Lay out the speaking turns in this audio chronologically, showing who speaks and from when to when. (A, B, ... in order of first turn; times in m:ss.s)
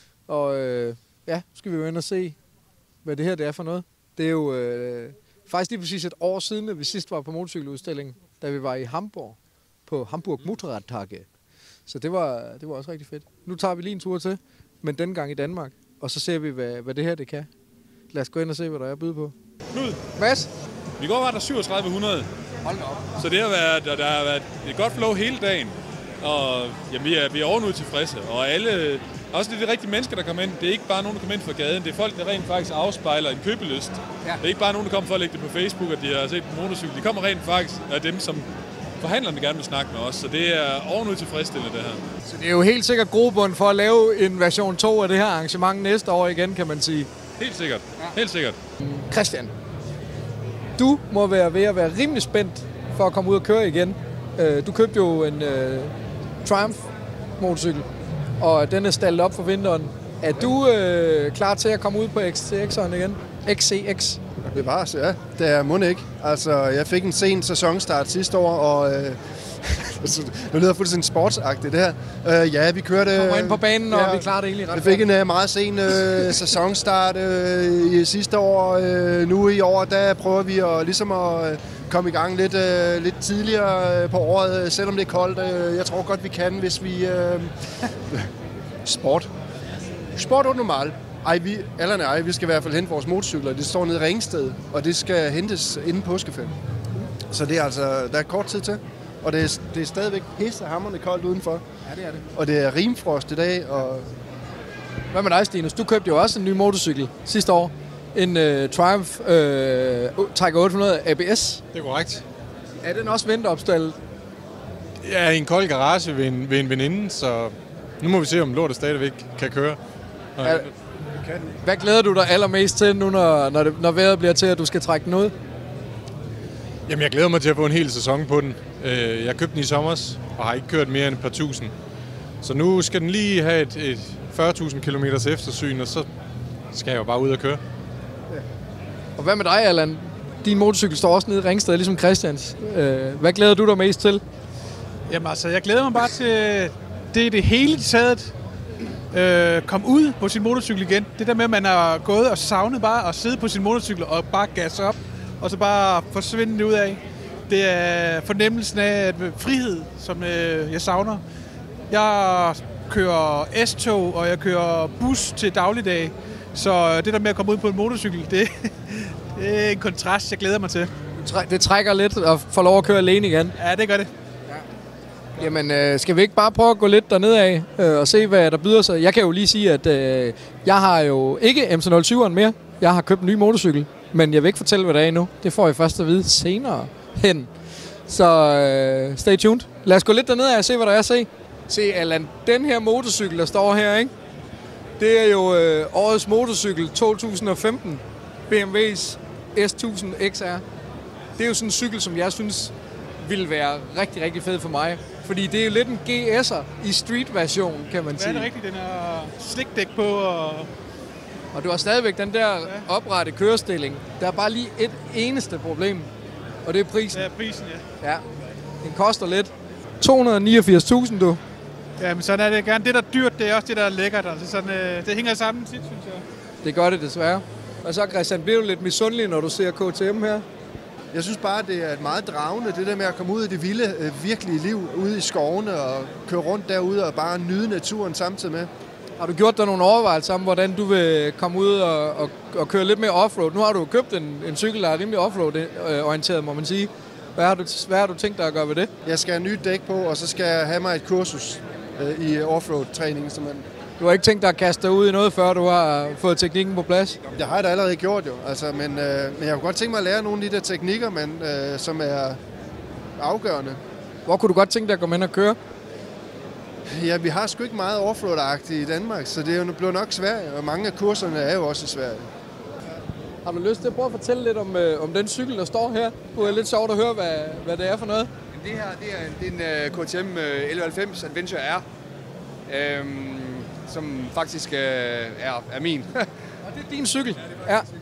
0:00.3-0:02.4 A
0:03.0-0:11.3 A
0:11.9-0:17.5 A
0:18.1-0:19.3 A
0:19.7-0:20.0 B
0:20.2-0:20.5 A
0:21.0-0:22.3 B
0:22.6-0:23.0 A
0:23.2-0:38.5 B
0:39.0-0:42.0 B
0:42.3-0:47.1 A
0:47.4-0:48.6 B
0:48.8-0:49.5 A
0:50.8-0:55.9 A
0:56.4-0:56.9 A
0:57.4-0:57.9 A
0:58.4-1:04.2 A
1:04.5-1:28.3 C
1:13.1-1:15.0 A
1:28.8-1:29.3 C
1:30.1-1:36.5 C
1:37.2-1:41.6 C
1:41.9-1:42.2 A
1:42.3-1:44.1 C
1:45.1-1:51.6 A
1:51.7-1:52.2 D
1:52.8-1:54.0 A
1:55.0-1:59.8 D
2:00.4-2:00.7 D
2:01.2-2:01.4 C
2:01.6-2:05.3 A
2:06.9-2:11.7 D
2:12.4-2:16.1 D
2:16.7-2:17.6 D
2:19.2-2:24.2 A
2:25.1-2:28.3 E
2:29.1-2:41.2 E
2:41.9-2:50.9 E
2:51.2-2:53.5 A
2:53.6-2:54.1 E
2:55.4-3:07.5 A
3:08.1-3:14.1 A
3:15.0-3:20.6 A
3:21.4-3:28.5 A
3:28.1-3:30.7 E
3:31.5-3:36.1 A
3:36.6-3:37.3 A
3:37.1-3:37.8 E
3:38.8-3:41.4 A
3:42.0-3:46.2 E
3:46.6-3:50.4 A
3:51.1-3:58.7 C
3:59.2-4:08.9 A
4:09.0-4:13.6 C
4:14.0-4:17.2 A
4:17.3-4:22.4 C
4:23.2-4:23.8 C
4:24.2-4:25.6 A
4:26.9-4:32.3 C
4:33.4-4:38.3 A
4:38.5-4:41.8 F
4:42.7-4:46.3 F
4:46.6-4:47.9 A